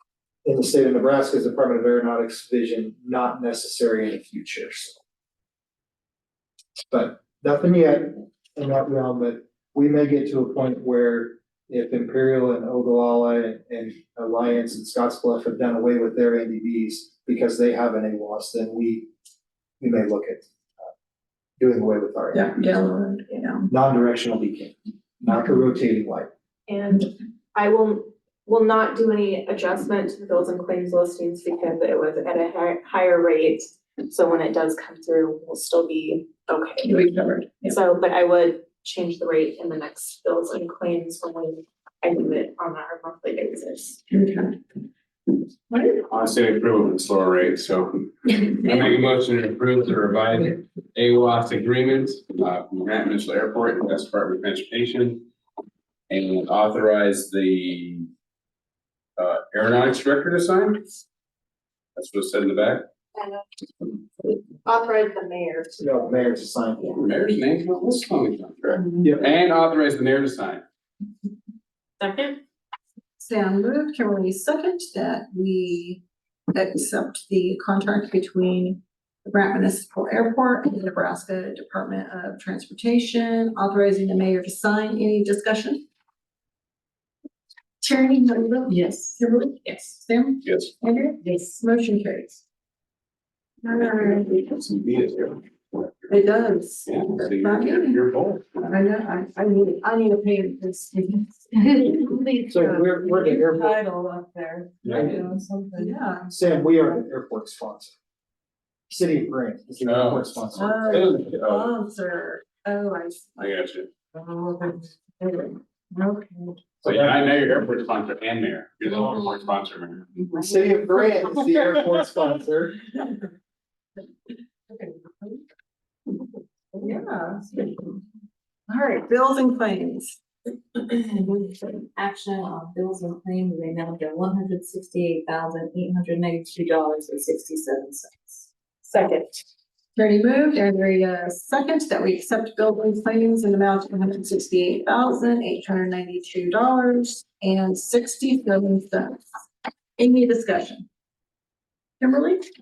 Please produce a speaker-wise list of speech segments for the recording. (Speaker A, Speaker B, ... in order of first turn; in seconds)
Speaker A: 0.5-5.0, 6.9-19.1, 19.8-20.5, 21.6-22.6, 23.7-26.3, 65.8-67.0, 69.0-69.3, 102.5-103.8, 104.9-105.3, 106.3-108.0, 108.9-111.2, 116.8-117.5, 120.4-122.8
Speaker B: 22.3-23.7, 36.8-37.8, 44.1-44.5, 45.7-46.0, 73.2-76.0, 76.5-85.8, 87.8-92.4, 93.6-94.5, 96.1-98.0, 98.7-102.2, 105.8-106.3, 110.6-113.5, 126.8-128.0, 128.7-130.2, 130.9-131.6, 140.0-149.2, 150.0-150.9, 152.0-152.4
Speaker C: 26.7-37.0, 37.7-44.0, 63.2-63.4, 64.7-65.7, 72.0-72.4, 138.9-139.4
Speaker D: 46.1-55.3, 56.1-58.1, 59.2-60.9, 62.0-62.9, 66.9-70.6, 90.4-90.7, 94.2-96.2, 96.8-98.8, 109.8-111.8, 113.4-113.9, 116.8-120.3
Speaker E: 88.7-89.2, 91.2-91.6, 101.5-106.2, 114.1-115.5, 116.0-116.4, 126.7-127.0, 131.9-138.5